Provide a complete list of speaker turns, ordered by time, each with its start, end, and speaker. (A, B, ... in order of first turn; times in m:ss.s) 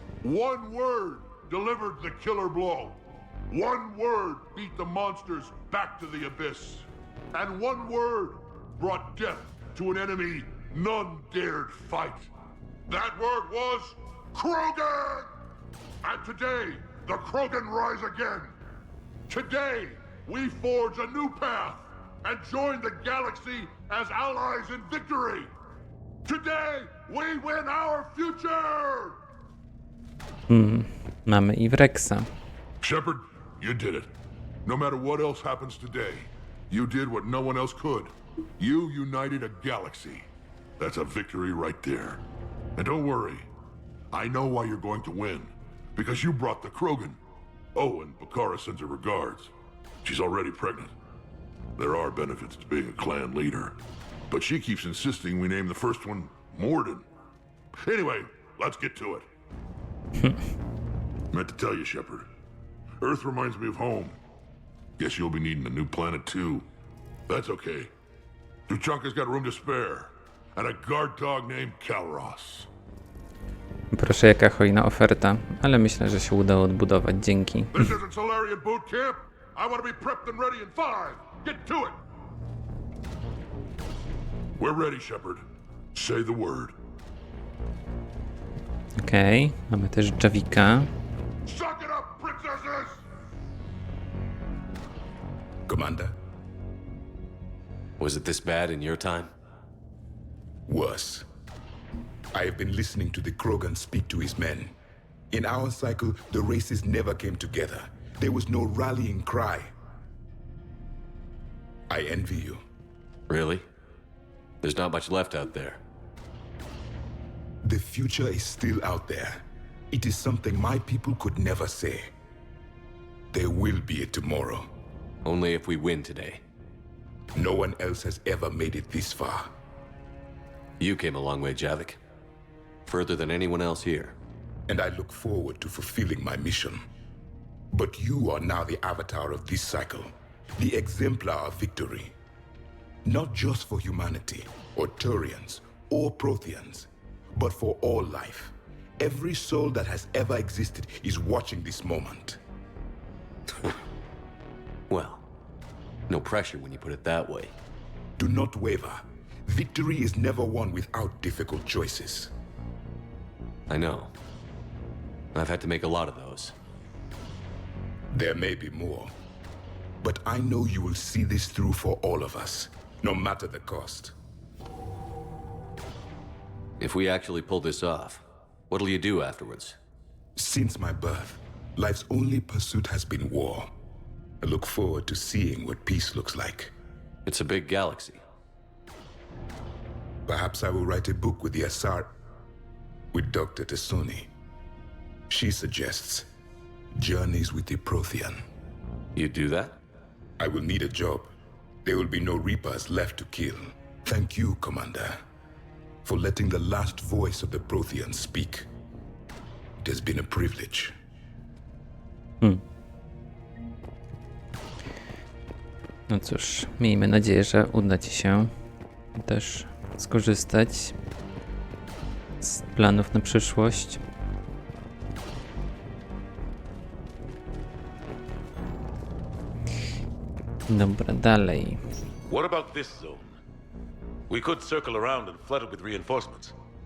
0:00.2-0:03.0 A
0:03.5-0:12.3 A
0:12.9-0:15.3 A
0:16.0-0:18.5 A
0:19.3-0:25.5 A
0:26.3-0:29.2 A
0:30.5-0:32.3 B
0:32.8-0:34.1 A
0:34.6-0:40.2 A
0:40.8-0:42.2 A
0:42.8-0:43.5 A
0:44.1-0:47.2 A
0:47.7-0:49.5 A
0:50.0-0:50.9 A
0:51.8-0:53.7 A
0:54.3-0:57.0 A
0:57.8-0:59.3 A
1:01.3-1:02.3 A
1:03.0-1:04.2 A
1:05.0-1:06.6 A
1:07.3-1:07.9 A
1:08.7-1:12.7 A
1:13.9-1:17.9 B
1:17.7-1:22.0 A
1:24.6-1:25.4 A
1:25.9-1:26.7 A
1:29.0-1:30.9 B
1:31.4-1:33.0 A
1:35.7-1:36.2 C
1:38.0-1:39.3 D
1:40.7-1:41.2 C
1:42.3-1:44.7 C
1:45.3-1:49.7 C
1:51.9-1:52.6 C
1:53.3-1:53.6 D
1:54.6-1:55.8 D
1:57.6-2:02.1 C
2:03.3-2:04.7 C
2:05.2-2:06.4 D
2:07.3-2:09.5 C
2:10.8-2:12.0 D
2:12.9-2:14.1 D
2:14.7-2:16.8 C
2:17.7-2:22.1 C
2:23.0-2:32.4 C
2:34.9-2:35.2 D
2:36.1-2:37.5 D
2:38.2-2:42.3 C
2:43.7-2:44.1 D
2:45.3-2:46.5 D
2:48.1-2:49.1 C
2:50.0-2:54.1 C
2:56.8-2:59.8 D
3:00.4-3:03.7 C
3:04.4-3:06.7 C
3:07.2-3:08.2 D
3:10.3-3:12.1 C
3:13.1-3:14.3 C
3:15.3-3:16.3 C
3:16.9-3:18.4 C
3:19.1-3:19.8 D
3:20.4-3:21.3 C
3:21.8-3:25.2 C
3:26.0-3:28.7 C
3:29.8-3:30.9 C
3:36.1-3:38.5 B
3:39.2-3:40.9 B
3:42.4-3:44.0 B
3:50.7-3:51.8 B
3:52.3-3:53.4 E
3:54.3-3:56.5 E